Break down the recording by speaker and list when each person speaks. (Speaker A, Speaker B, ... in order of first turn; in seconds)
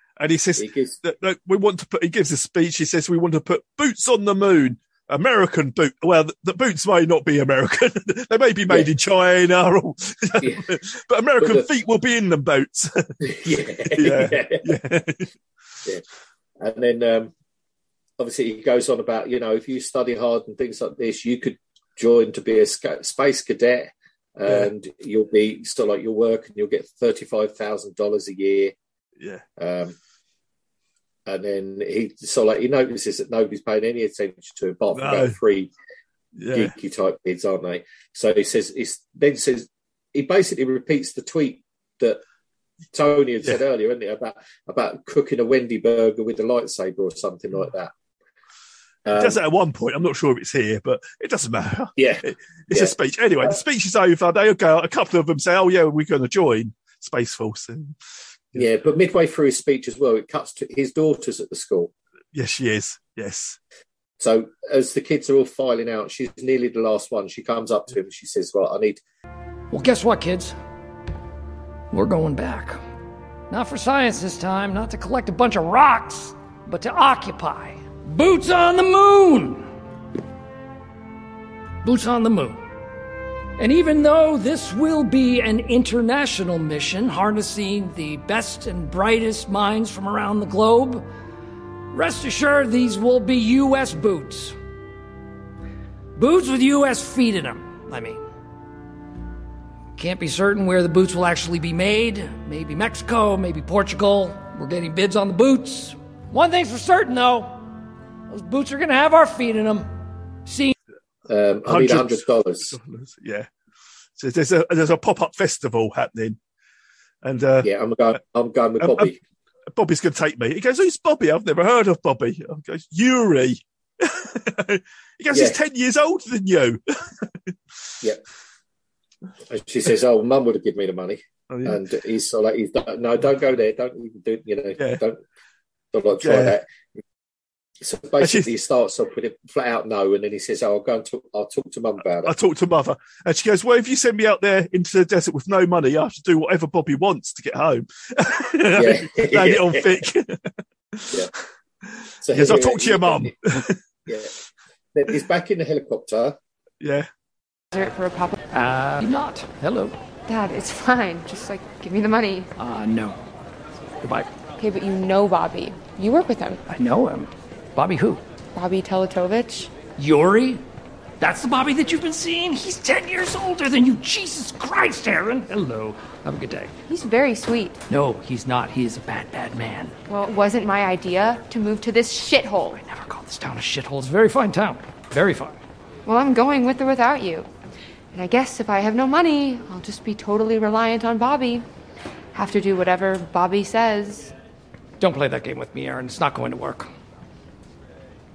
Speaker A: 0.2-13.1, 13.9-15.3, 35.0-35.4, 36.4-36.7, 49.1-58.0, 62.3-63.6, 111.7-113.5, 114.2-116.4, 117.2-117.7, 118.8-119.1, 119.7-126.8, 131.5-131.8, 136.2-136.6, 138.2-138.5, 142.2-151.2, 152.3-153.8, 156.8-157.1
Speaker B: 0.6-0.9, 10.4-10.7, 11.4-11.7, 13.2-14.6, 16.6-17.3, 18.2-28.7, 29.6-29.9, 31.3-35.7, 36.5-42.2, 42.9-47.9, 49.1-49.4, 52.0-53.6, 58.5-61.9, 64.2-69.0, 111.3-112.8, 117.6-119.2, 125.3-125.6, 129.5-135.2, 135.9-136.6, 137.8-142.3, 148.8-149.9, 152.2-153.3, 154.1-154.3, 154.9-156.4
Speaker C: 69.7-70.5, 71.9-72.8, 73.5-79.7, 81.8-82.6, 83.6-91.1, 91.9-94.6, 96.2-98.2, 100.0-107.6, 108.3-109.9, 110.5-110.7, 158.5-159.9, 162.6-163.2, 164.0-164.3, 166.7-168.2, 170.0-170.6, 171.2-176.7, 177.9-179.9, 182.7-185.6, 195.0-196.9
Speaker D: 157.7-158.4, 160.3-162.5, 164.6-166.6, 168.5-169.7, 176.9-177.8, 180.1-182.8, 186.1-187.5, 188.1-191.6, 192.3-194.3